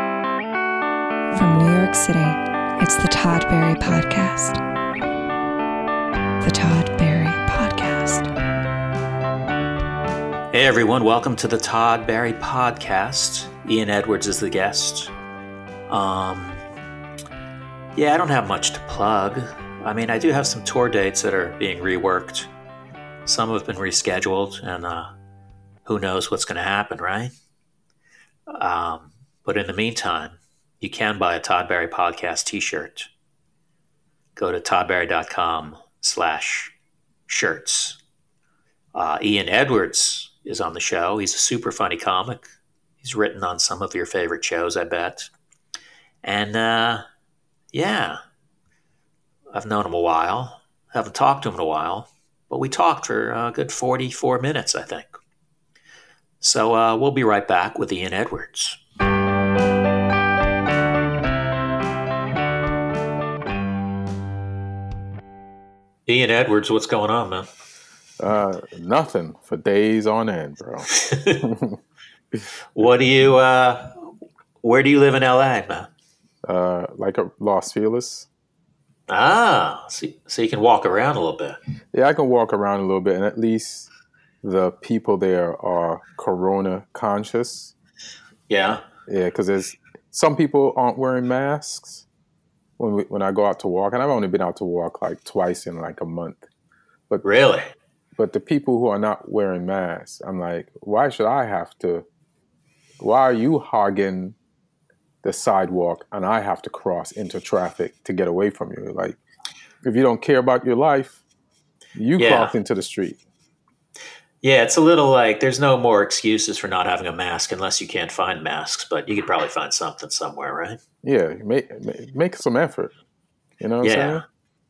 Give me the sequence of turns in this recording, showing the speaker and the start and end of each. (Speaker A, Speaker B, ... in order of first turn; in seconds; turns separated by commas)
Speaker A: 1.3-4.6, Speaker A: 6.4-8.3, Speaker B: 10.5-15.1, Speaker B: 15.9-16.6, Speaker B: 17.9-22.5, Speaker B: 23.2-25.1, Speaker B: 25.8-27.3, Speaker B: 28.5-33.1, Speaker B: 34.4-36.7, Speaker B: 37.3-38.0, Speaker B: 38.9-42.5, Speaker B: 43.0-45.3, Speaker B: 46.2-47.0, Speaker B: 47.7-48.2, Speaker B: 49.5-55.1, Speaker B: 56.4-58.8, Speaker B: 66.1-67.5, Speaker C: 68.2-70.9, Speaker B: 70.9-71.5, Speaker C: 71.4-71.8, Speaker B: 72.8-74.1, Speaker B: 74.6-75.9, Speaker C: 76.4-78.3, Speaker B: 79.1-81.6, Speaker C: 81.9-83.9, Speaker C: 84.4-87.7, Speaker B: 88.5-88.8, Speaker C: 89.1-92.0, Speaker C: 92.8-96.4, Speaker B: 97.2-97.7, Speaker C: 98.2-102.0, Speaker C: 103.0-104.3, Speaker C: 105.2-109.2, Speaker C: 109.8-111.2, Speaker C: 111.9-113.2, Speaker B: 112.2-112.5, Speaker B: 114.4-120.8, Speaker C: 121.0-122.9, Speaker C: 123.6-124.2, Speaker B: 123.8-124.2